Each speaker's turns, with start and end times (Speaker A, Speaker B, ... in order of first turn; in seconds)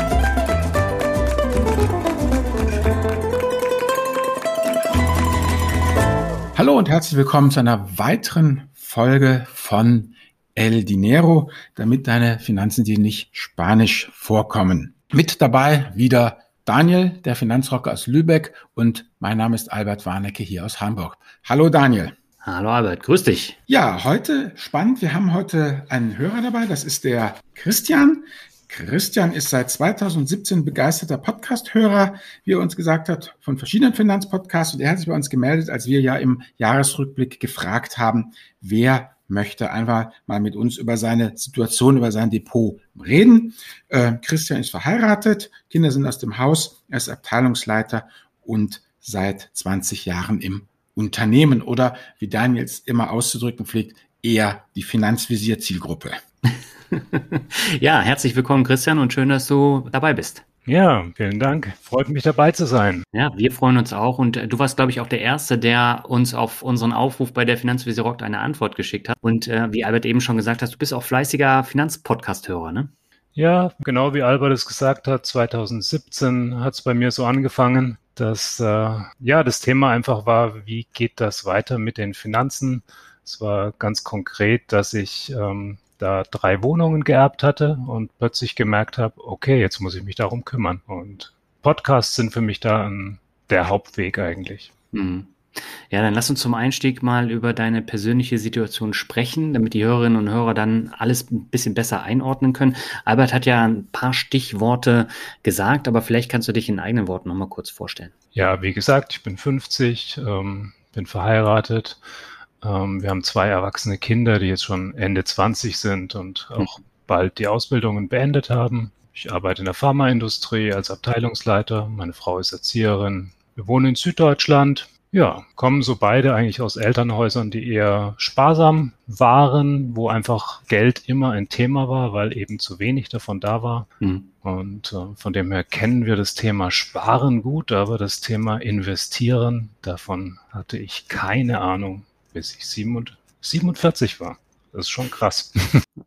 Speaker A: 6.5-22.1, 23.7-56.2
Speaker B: 22.4-23.6, 56.5-60.4, 63.1-72.9, 94.9-108.1, 134.0-134.3
Speaker C: 60.6-63.0, 73.3-94.7, 108.3-112.0, 112.6-133.9, 134.4-145.8